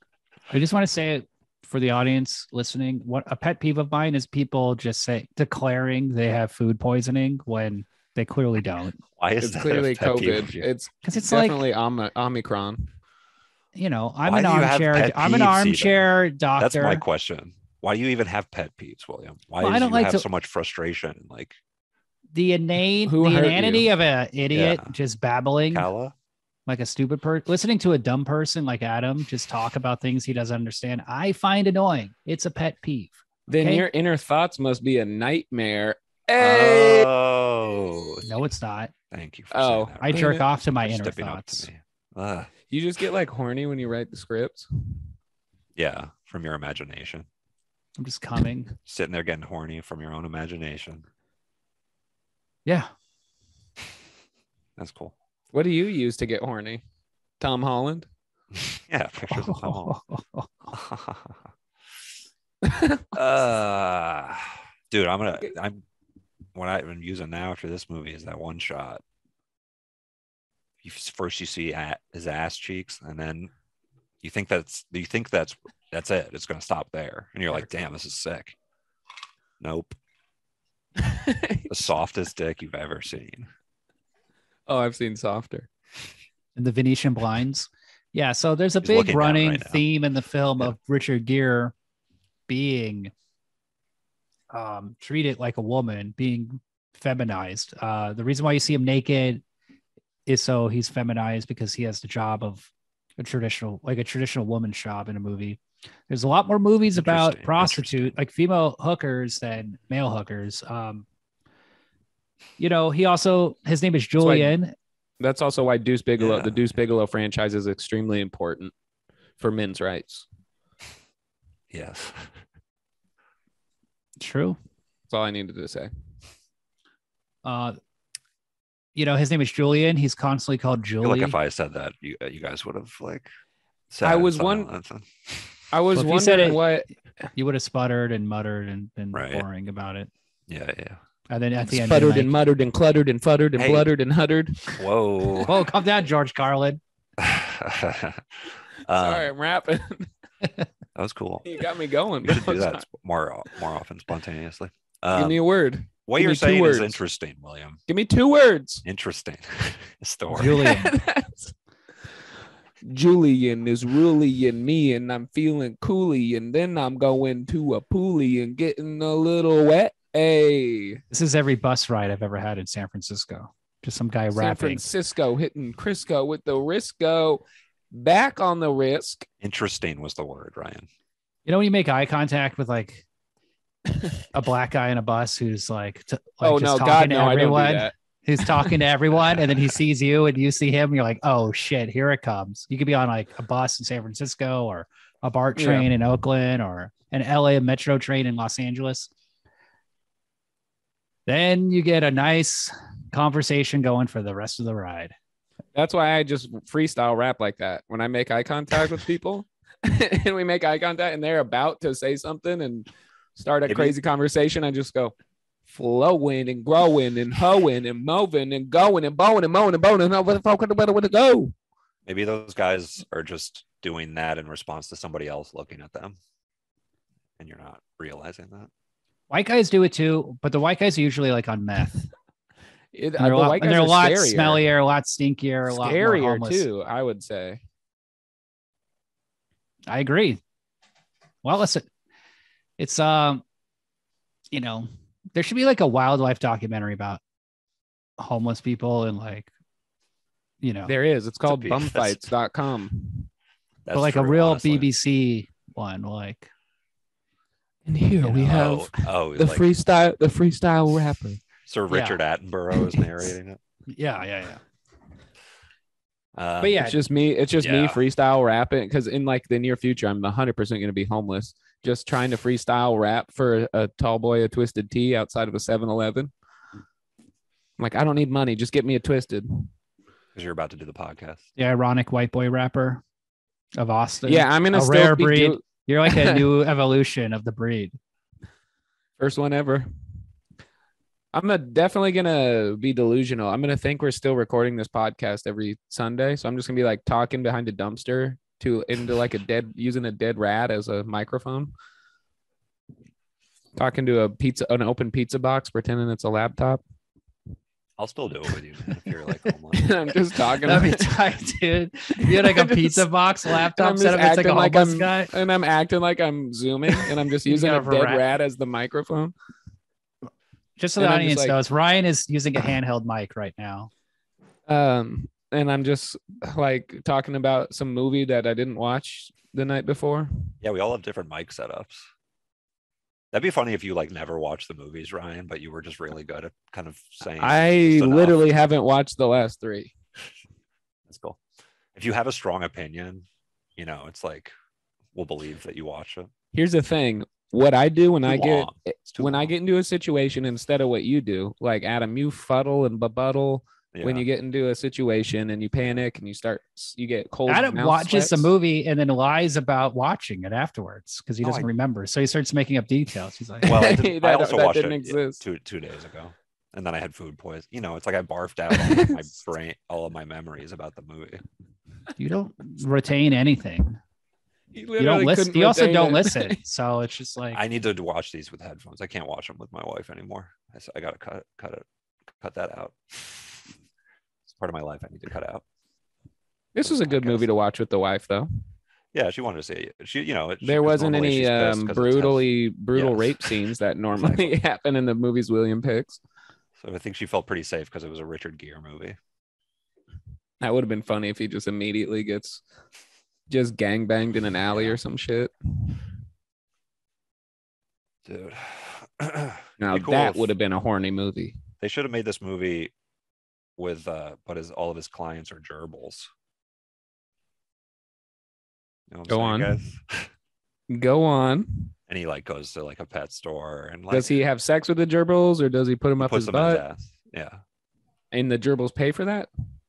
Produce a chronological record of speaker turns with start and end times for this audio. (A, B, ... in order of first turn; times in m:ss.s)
0:00.5-0:09.0 A
0:09.2-0:10.7 B
0:09.4-0:12.9 C
0:11.0-0:11.6 A
0:13.7-0:17.0 A
0:14.2-0:16.0 B
0:16.6-0:21.6 B
0:19.6-0:20.2 A
0:22.3-0:25.9 A
0:23.0-0:23.9 C
0:24.5-0:24.9 B
0:25.7-0:26.1 B
0:26.7-0:33.8 A
0:33.5-0:37.1 C
0:36.4-0:38.3 B
0:38.2-0:38.9 A
0:39.1-0:42.5 B
0:39.5-0:40.4 C
0:40.0-0:41.7 A
0:42.7-0:45.1 C
0:45.8-0:47.3 B
0:48.0-0:48.7 A
0:48.9-0:51.0 B
0:54.8-0:55.1 B
0:55.5-0:56.8 C
0:57.4-0:58.1 C
0:58.5-1:00.0 B
0:59.3-1:00.7 A
1:00.7-1:01.4 B
1:02.6-1:03.0 C
1:03.1-1:05.8 B
1:06.5-1:09.0 B
1:10.8-1:13.5 B
1:14.2-1:18.5 B
1:19.6-1:20.0 B
1:21.0-1:21.8 C
1:21.7-1:23.5 B
1:24.7-1:25.7 C
1:26.6-1:31.7 A
1:28.8-1:29.8 B
1:32.5-1:33.1 A
1:34.5-1:39.4 A
1:40.3-1:51.0 A
1:46.9-1:48.2 B
1:52.6-1:54.7 A
1:54.2-1:54.5 C
1:55.2-1:58.7 C
1:56.2-1:56.8 B
1:59.4-2:00.2 C
2:01.7-2:02.4 B
2:04.2-2:04.6 A
2:05.1-2:05.9 C
2:07.4-2:07.8 A
2:08.9-2:11.4 A
2:11.0-2:13.3 B
2:13.9-2:15.6 B
2:14.0-2:14.7 C
2:15.7-2:16.9 C
2:15.9-2:16.6 A
2:17.4-2:20.1 A
2:19.1-2:19.4 B
2:20.5-2:21.0 B
2:21.3-2:22.3 A
2:21.7-2:24.8 C
2:23.6-2:23.9 B
2:24.7-2:25.5 B
2:25.4-2:26.8 A
2:27.2-2:29.3 B
2:28.9-2:30.1 C
2:31.0-2:31.5 B
2:31.4-2:32.8 C
2:32.2-2:35.4 B
2:35.1-2:37.0 C
2:36.0-2:37.8 B
2:37.9-2:38.8 C
2:38.8-2:40.7 B
2:40.3-2:40.9 A
2:40.6-2:41.5 C
2:42.8-2:51.0 C
2:51.1-2:54.8 A
2:54.3-2:59.2 C
2:59.4-3:00.9 B
3:01.4-3:03.0 A
3:04.3-3:19.1 A
3:06.4-3:07.9 C
3:08.4-3:08.8 C
3:09.3-3:09.6 B
3:15.6-3:15.9 C
3:21.3-3:25.1 A
3:25.7-3:35.1 C
3:33.6-3:34.0 B
3:35.7-3:41.5 C
3:42.0-3:46.2 B
3:47.4-3:48.7 B
3:49.3-3:52.1 A
3:52.9-3:54.7 C
3:53.2-3:56.6 A
3:55.7-3:57.6 C
3:59.9-4:00.4 A
4:01.4-4:01.9 A
4:02.8-4:03.4 A
4:04.5-4:07.2 A
4:08.2-4:09.5 A
4:10.6-4:10.9 A
4:10.9-4:13.3 C
4:11.4-4:12.2 B
4:13.8-4:14.9 B
4:13.9-4:16.5 A
4:17.8-4:21.4 C
4:18.2-4:19.6 B
4:21.7-4:23.6 B
4:21.9-4:22.2 A
4:23.9-4:24.6 A
4:26.4-4:26.8 B
4:26.6-4:27.0 A
4:26.8-4:36.3 C
4:27.6-4:28.0 B
4:37.8-4:39.7 C
4:40.3-4:41.4 B
4:41.6-4:43.0 A
4:43.8-4:48.0 A
4:44.3-4:46.4 C
4:49.2-4:49.9 C
4:51.3-5:01.7 C
5:03.8-5:06.8 C
5:08.0-5:10.1 B
5:09.7-5:11.2 C
5:10.7-5:15.3 A
5:12.2-5:19.3 C
5:17.5-5:18.2 A
5:20.8-5:23.9 A
5:21.0-5:21.5 C
5:24.7-5:30.5 C
5:30.6-5:32.1 B
5:33.3-5:38.5 B
5:37.4-5:39.9 C
5:41.1-5:41.4 B
5:41.9-5:43.2 B
5:43.8-5:44.5 B
5:45.1-5:46.3 B
5:46.5-5:58.5 C
5:48.2-5:49.5 B
5:53.9-5:54.2 B
5:57.5-6:03.7 A
6:01.4-6:01.7 B
6:03.6-6:05.4 C
6:03.6-6:11.4 B
6:08.7-6:09.3 C
6:12.2-6:14.0 A
6:14.7-6:16.6 C
6:15.0-6:17.6 A
6:17.5-6:23.8 B
6:24.5-6:25.6 B
6:26.7-6:28.6 C
6:26.8-6:27.5 B
6:29.1-6:34.6 B
6:30.6-6:36.2 C
6:36.8-6:39.2 B
6:40.6-6:42.6 C
6:43.5-6:46.0 C
6:44.7-6:45.0 B
6:48.2-6:50.5 B
6:49.8-6:51.6 C
6:51.8-6:52.9 B
6:53.8-6:56.3 B
6:59.1-7:00.3 B
6:59.3-6:59.8 C
7:00.9-7:01.9 C
7:02.1-7:04.3 B
7:04.1-7:06.8 C
7:06.2-7:07.6 B
7:08.3-7:09.5 C